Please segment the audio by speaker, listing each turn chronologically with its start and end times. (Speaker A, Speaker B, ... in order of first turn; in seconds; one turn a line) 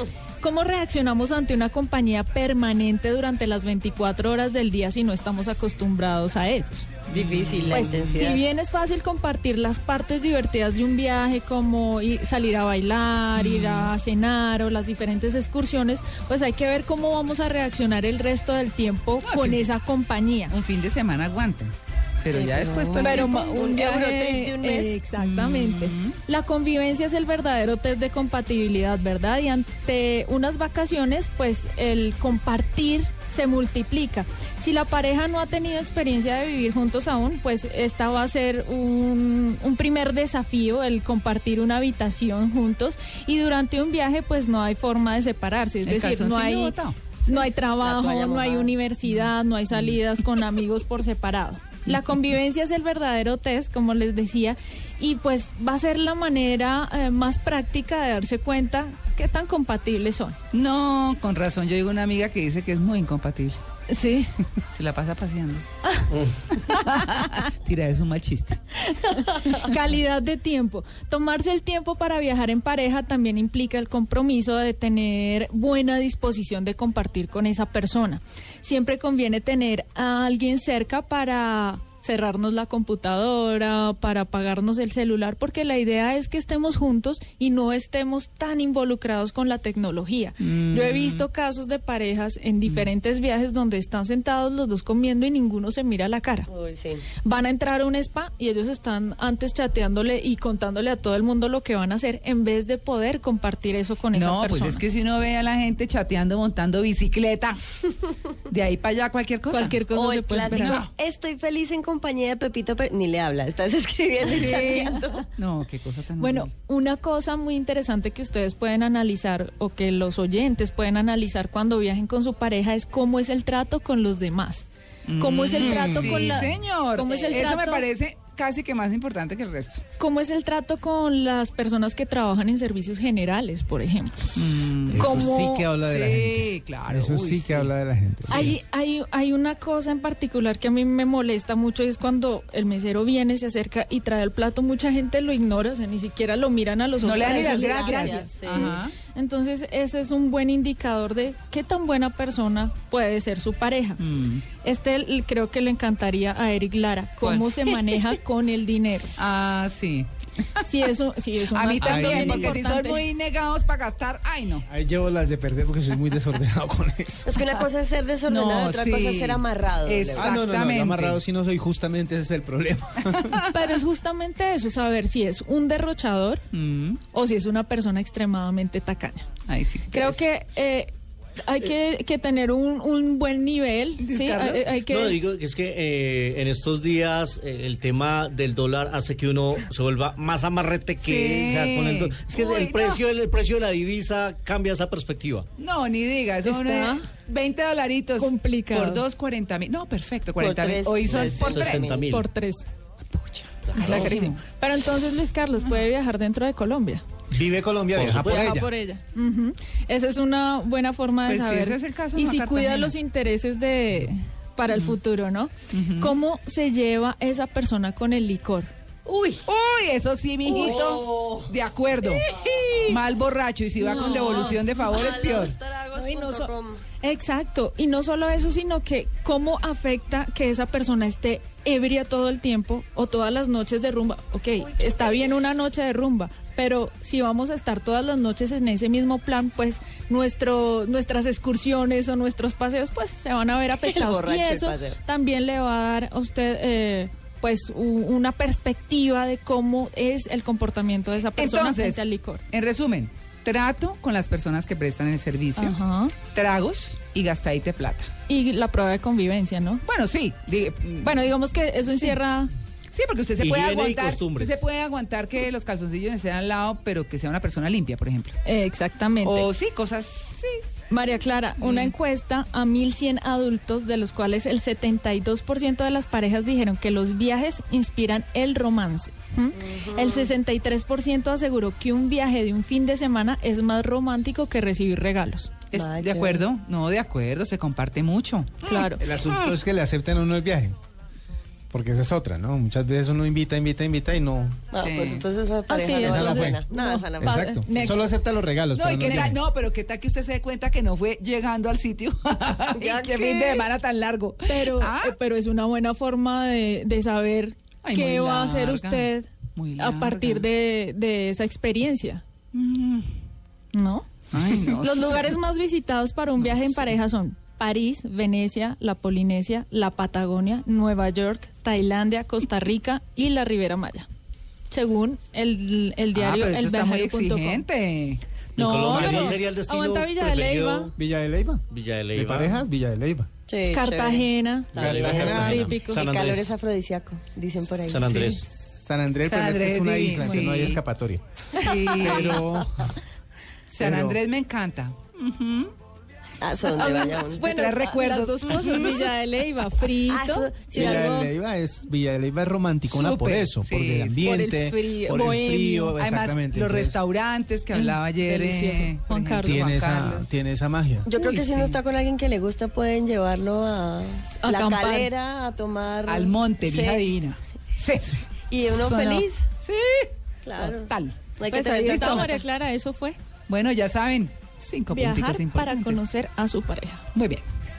Speaker A: 0.4-6.9
Speaker B: 7.1-8.2
Speaker C: 7.1-8.4
Speaker A: 7.7-20.5
Speaker B: 13.3-13.9
Speaker B: 19.2-19.7
Speaker B: 20.5-23.3
Speaker C: 22.3-25.0
Speaker A: 23.0-60.4
Speaker B: 25.2-26.2
Speaker B: 45.9-47.0
Speaker C: 47.8-48.7
Speaker B: 49.1-50.0
Speaker B: 60.5-63.6
Speaker A: 63.9-64.3
Speaker B: 64.7-65.7
Speaker A: 65.8-67.0
Speaker B: 66.7-68.6
Speaker A: 68.8-96.5
Speaker B: 90.4-91.2
Speaker C: 96.5-97.1
Speaker A: 97.2-104.8
Speaker B: 104.1-107.9
Speaker B: 108.5-109.8
Speaker A: 109.5-110.8
Speaker C: 109.9-115.3
Speaker B: 110.4-110.9
Speaker B: 114.3-116.5
Speaker A: 116.2-127.9
Speaker B: 125.1-129.8
Speaker D: 125.6-126.4
Speaker C: 127.0-127.6
Speaker A: 130.0-134.4
Speaker B: 134.4-135.3
Speaker D: 134.9-138.6
Speaker A: 134.9-135.7
Speaker B: 135.8-137.7
Speaker B: 138.3-138.6
Speaker A: 138.3-154.0
Speaker B: 147.0-148.9
Speaker C: 147.2-148.8
Speaker B: 154.0-154.4
Speaker A: 154.6-159.2
Speaker B: 157.2-157.8
Speaker B: 159.2-160.1
Speaker A: 160.6-163.1
Speaker B: 161.5-164.7
Speaker D: 161.8-162.6
Speaker D: 164.7-167.3
Speaker C: 167.2-170.3
Speaker B: 168.3-171.2
Speaker D: 170.1-173.4
Speaker A: 173.5-176.4
Speaker B: 176.5-177.0
Speaker A: 177.1-179.3
Speaker B: 179.5-180.2
Speaker A: 179.9-185.2
Speaker B: 184.0-184.8
Speaker E: 184.8-195.5
Speaker B: 191.0-193.0
Speaker B: 195.6-201.9
Speaker A: 196.4-197.1
Speaker A: 198.2-199.0
Speaker C: 200.4-202.1
Speaker E: 201.1-202.3
Speaker A: 202.0-202.7
Speaker B: 203.2-204.4
Speaker E: 203.7-204.0
Speaker A: 203.7-207.0
Speaker D: 207.3-208.7
Speaker E: 207.9-208.6
Speaker A: 208.3-218.7
Speaker B: 211.3-212.9
Speaker B: 215.7-216.2
Speaker C: 219.1-219.4
Speaker B: 219.4-225.6
Speaker C: 220.6-221.4
Speaker C: 222.3-222.9
Speaker A: 223.8-224.6
Speaker C: 223.9-226.8
Speaker A: 225.9-252.4
Speaker C: 234.8-235.3
Speaker C: 243.8-245.0
Speaker B: 251.4-255.8
Speaker A: 255.6-256.2
Speaker B: 256.3-258.1
Speaker A: 258.3-259.8
Speaker B: 259.9-261.3
Speaker A: 261.0-262.5
Speaker B: 262.9-268.4
Speaker E: 263.4-264.6
Speaker A: 268.4-269.5
Speaker B: 269.2-270.6
Speaker A: 270.9-285.6
Speaker B: 271.6-271.9
Speaker C: 279.6-280.3
Speaker B: 285.7-289.5
Speaker C: 285.7-286.5
Speaker A: 288.6-289.1
Speaker D: 289.0-290.8
Speaker D: 291.7-294.7
Speaker C: 294.7-297.5
Speaker B: 294.8-295.3
Speaker A: 295.7-298.2
Speaker D: 296.0-296.6
Speaker D: 297.2-299.4
Speaker B: 298.8-305.2
Speaker A: 299.0-299.4
Speaker C: 302.7-303.6
Speaker A: 304.4-312.2
Speaker B: 307.8-310.4
Speaker B: 312.5-313.1
Speaker A: 313.7-314.1
Speaker B: 314.3-315.4
Speaker A: 314.6-324.1
Speaker A: 324.7-327.6
Speaker B: 326.1-328.2
Speaker A: 328.6-330.9
Speaker E: 328.6-330.9
Speaker D: 328.8-329.5
Speaker D: 331.0-333.3
Speaker E: 331.7-332.6
Speaker C: 333.5-338.3
Speaker A: 333.7-336.1
Speaker D: 334.8-335.7
Speaker E: 334.8-336.6
Speaker E: 337.9-338.4
Speaker A: 338.1-338.4
Speaker D: 338.5-342.9
Speaker B: 339.3-340.8
Speaker B: 341.6-342.4
Speaker B: 343.7-345.7
Speaker D: 343.8-344.2
Speaker C: 346.4-347.4
Speaker A: 346.7-351.3
Speaker B: 346.7-349.0
Speaker C: 350.1-351.3
Speaker D: 350.7-357.0
Speaker B: 352.9-354.4
Speaker A: 354.2-355.9
Speaker B: 356.0-360.3
Speaker A: 357.7-359.7
Speaker D: 359.4-361.1
Speaker C: 361.1-367.1
Speaker B: 361.1-361.8
Speaker A: 364.4-365.1
Speaker B: 366.1-371.2
Speaker C: 368.5-369.5
Speaker C: 370.4-372.4
Speaker A: 371.5-373.2
Speaker B: 371.8-372.3
Speaker B: 373.5-376.0
Speaker A: 374.9-377.0
Speaker B: 377.1-377.4